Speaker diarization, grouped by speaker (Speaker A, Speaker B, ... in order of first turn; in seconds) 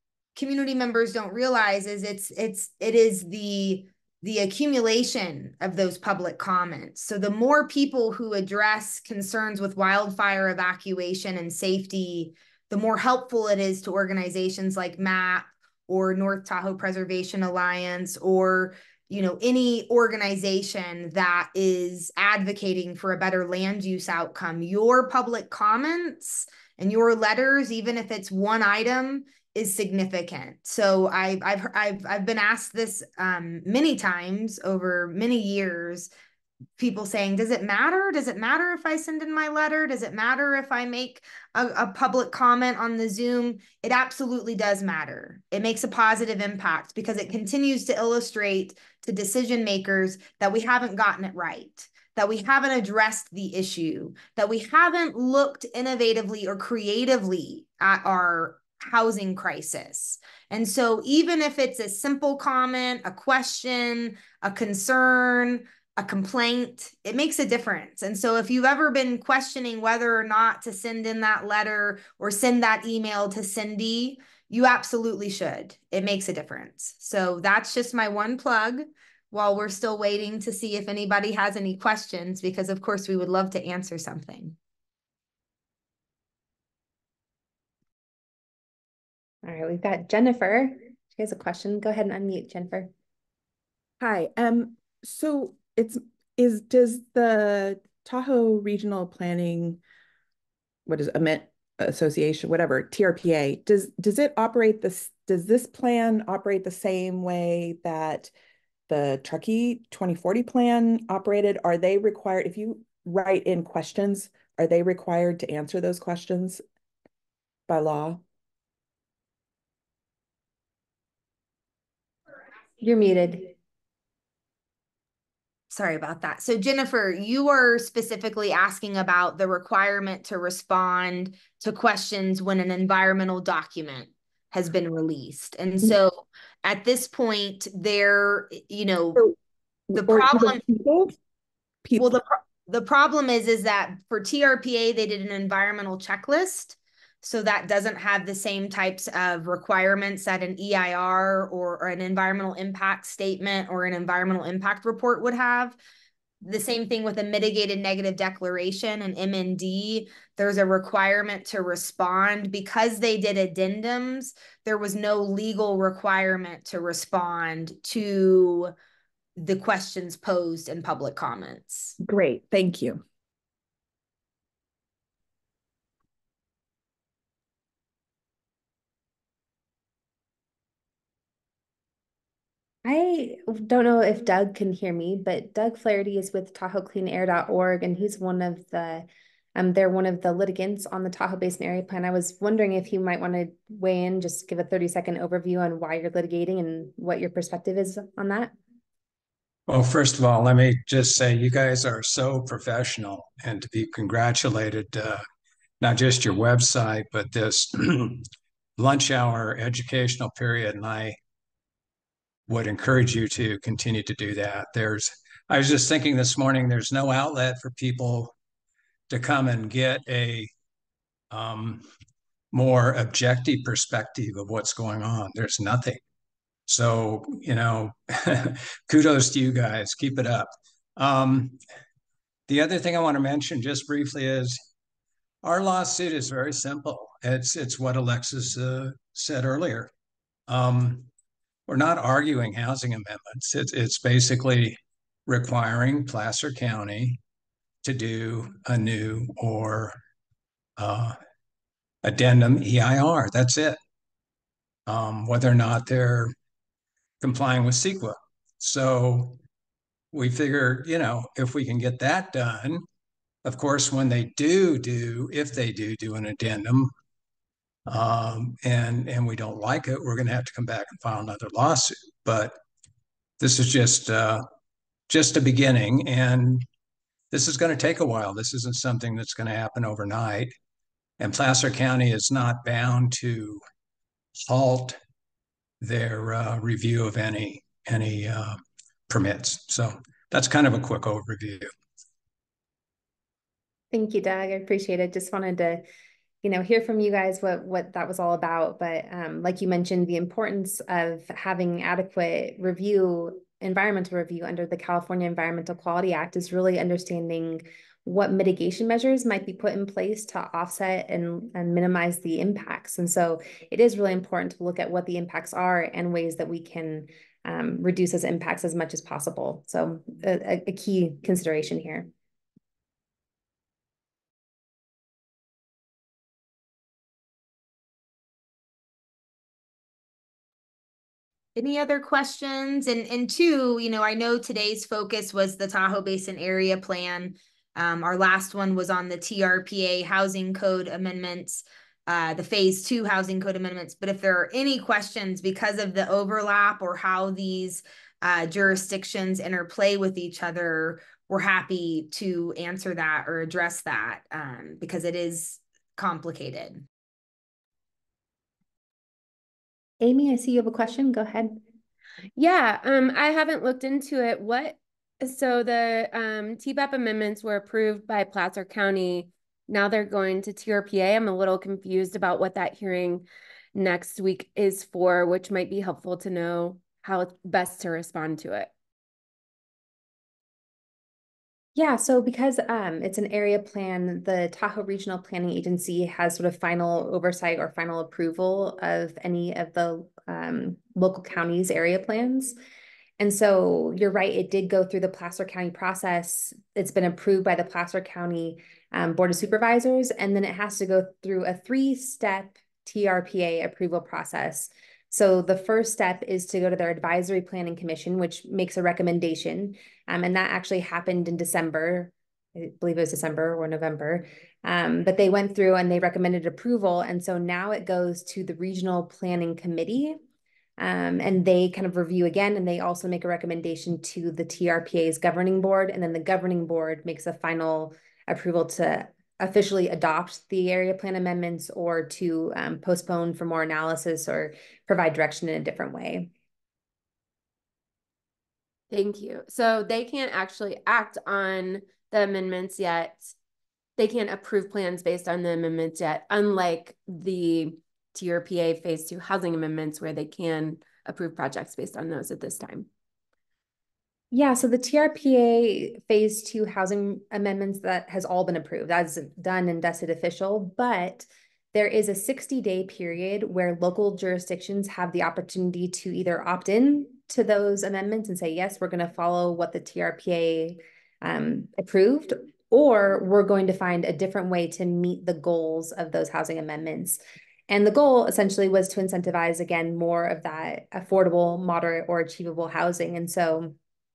Speaker A: 0.4-36.1, 36.8-84.6, 125.7-139.2, 140.0-140.6, 142.0-155.8, 156.4-168.7, 169.4-171.9, 331.6-356.8
Speaker B: 89.4-92.9, 122.8-123.5, 182.8-198.5, 293.9-295.8, 296.4-322.1, 360.0-361.6, 381.8-392.6, 393.2-420.2, 420.8-436.3, 454.3-483.8
Speaker C: 94.0-99.8, 100.9-108.3, 108.9-116.6, 117.7-118.2, 139.9-141.1, 141.8-142.2, 172.0-173.0
Speaker D: 199.7-205.2, 205.8-211.2, 212.5-218.3, 219.1-220.5, 221.3-221.8, 222.5-226.0, 226.7-231.6, 232.5-234.6, 235.4-239.9, 240.5-241.1, 241.7-247.2, 247.8-250.0, 250.8-251.2, 252.0-253.8, 254.9-256.3, 257.2-259.4, 260.1-262.9, 263.4-266.9, 267.9-272.6, 273.4-274.4, 275.1-276.7, 277.3-280.5, 281.2-283.6, 284.4-285.0, 285.8-291.7
Speaker E: 362.4-378.7, 438.9-443.3, 444.0-452.9